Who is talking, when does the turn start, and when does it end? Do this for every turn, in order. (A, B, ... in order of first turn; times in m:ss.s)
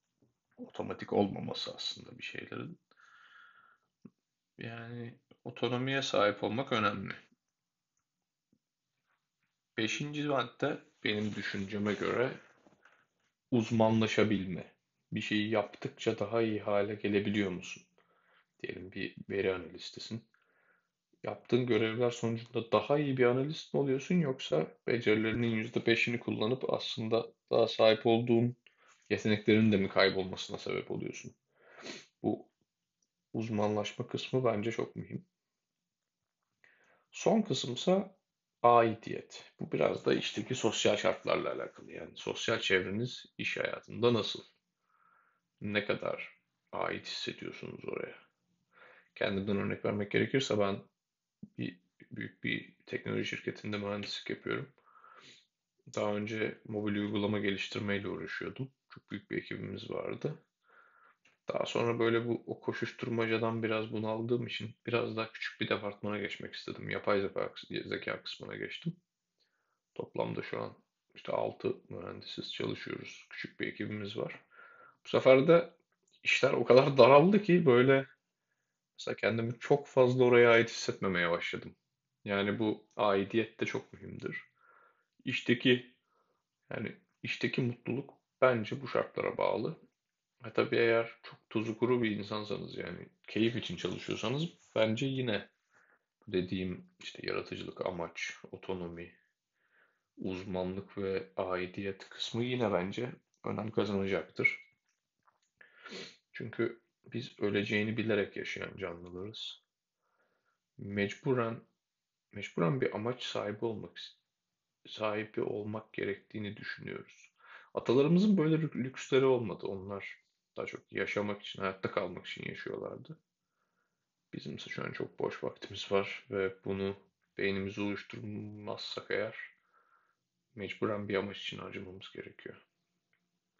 0:00.6-0:02.8 A
0:04.6-0:07.2 A
0:09.8-0:12.4 A
0:13.5-0:17.9 A
0:18.6-0:20.3 A
0:21.2-0:31.4 A
0:32.2-0:32.5 A
0:33.3-0:35.3 A
0:37.1-0:44.4 A
0:45.6-0:48.2 A
0:49.1-0:50.9 A
0:51.6-0:54.8 A
0:55.9-1:00.4 A
1:01.5-1:09.0 A
1:09.9-1:14.4 A
1:15.0-1:18.1 A
1:18.9-1:24.5 A
1:25.2-1:26.0 A
1:26.7-1:29.8 A
1:30.4-1:35.5 A
1:36.2-1:39.2 A
1:40.2-1:44.6 A
1:46.3-1:49.6 A
1:50.8-1:51.6 A
1:52.3-1:54.2 A
1:54.8-2:03.2 A
2:04.3-2:09.5 A
2:10.5-2:12.6 A